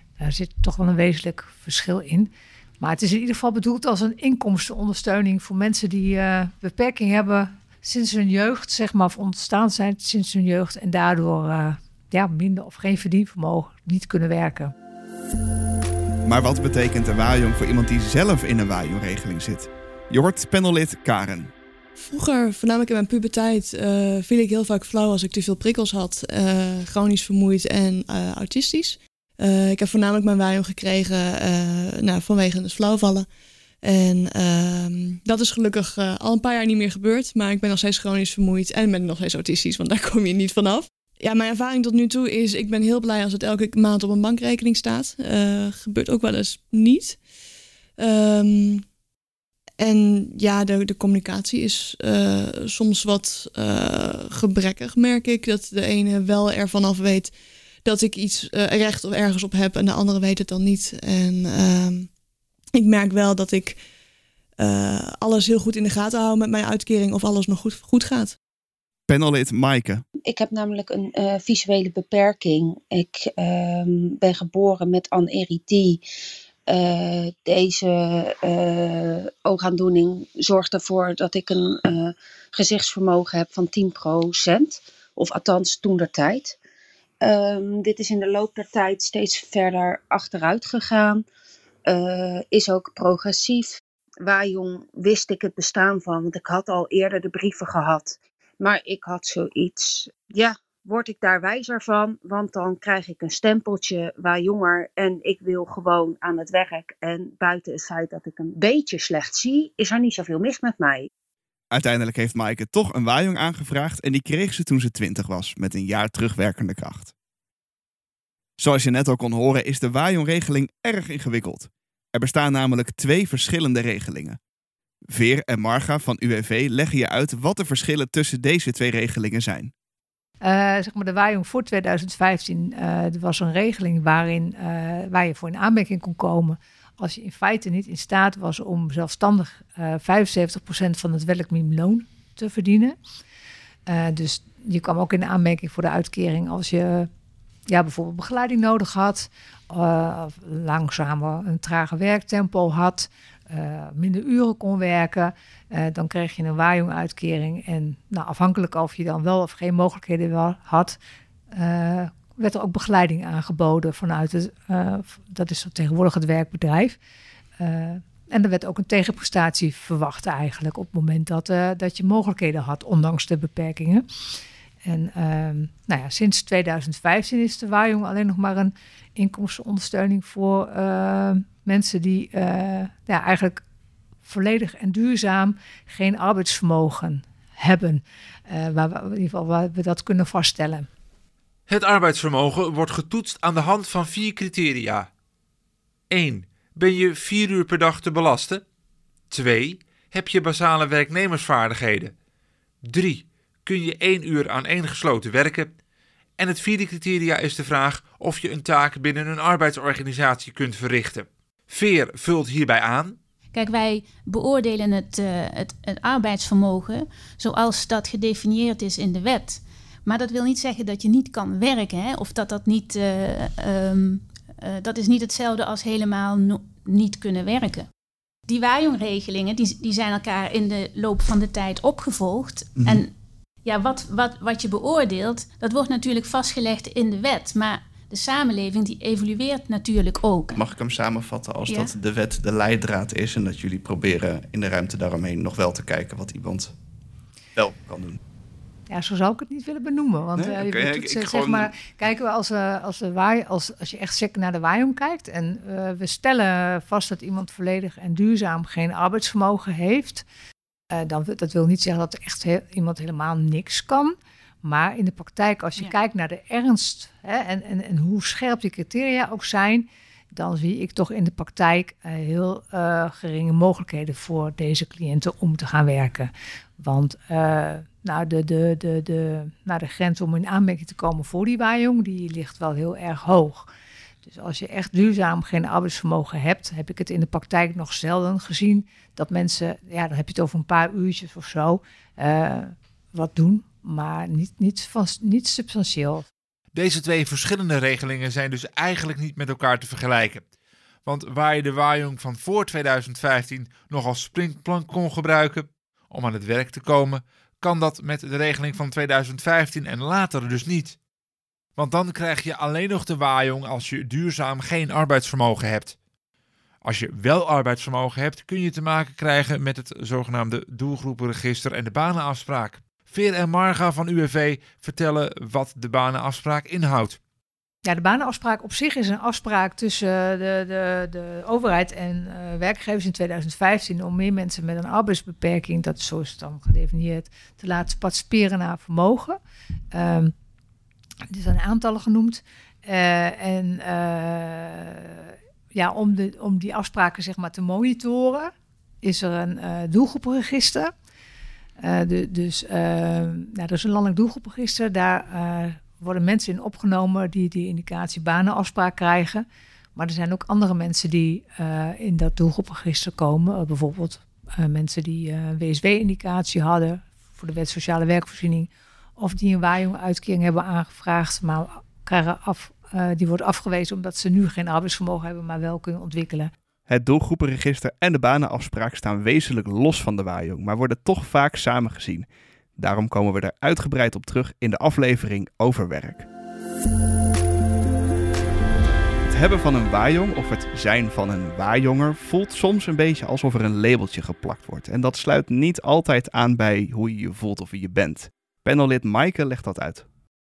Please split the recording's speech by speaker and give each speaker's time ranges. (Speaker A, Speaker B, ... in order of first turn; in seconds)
Speaker A: 0.2-14.7, 130.4-143.0, 143.9-147.1, 147.7-161.0, 161.5-167.0, 167.6-174.0, 174.8-183.6, 184.2-190.9, 248.9-260.2, 260.9-283.7, 284.2-296.3, 327.8-339.4, 339.9-340.3, 341.3-348.5, 349.0-350.9, 351.8-376.5
Speaker B: 16.2-21.5, 69.1-70.0, 111.7-117.1, 118.6-124.4, 125.1-129.7, 240.5-246.7, 247.6-248.2, 250.3-251.8, 376.9-386.2, 389.3-400.1
Speaker C: 22.0-33.3, 33.8-47.2, 48.0-48.8, 49.8-57.3, 57.8-62.1, 62.7-63.8, 64.6-68.3
Speaker D: 70.2-76.0, 76.7-86.5, 87.2-91.2, 91.9-93.7, 94.2-111.1
Speaker E: 191.7-195.1, 196.1-198.6, 199.3-202.1, 202.8-205.7, 206.4-213.2, 296.7-300.4, 301.0-311.0, 311.8-315.9, 316.8-327.2
Speaker F: 213.5-227.9, 228.5-233.1, 233.6-240.6, 241.7-241.9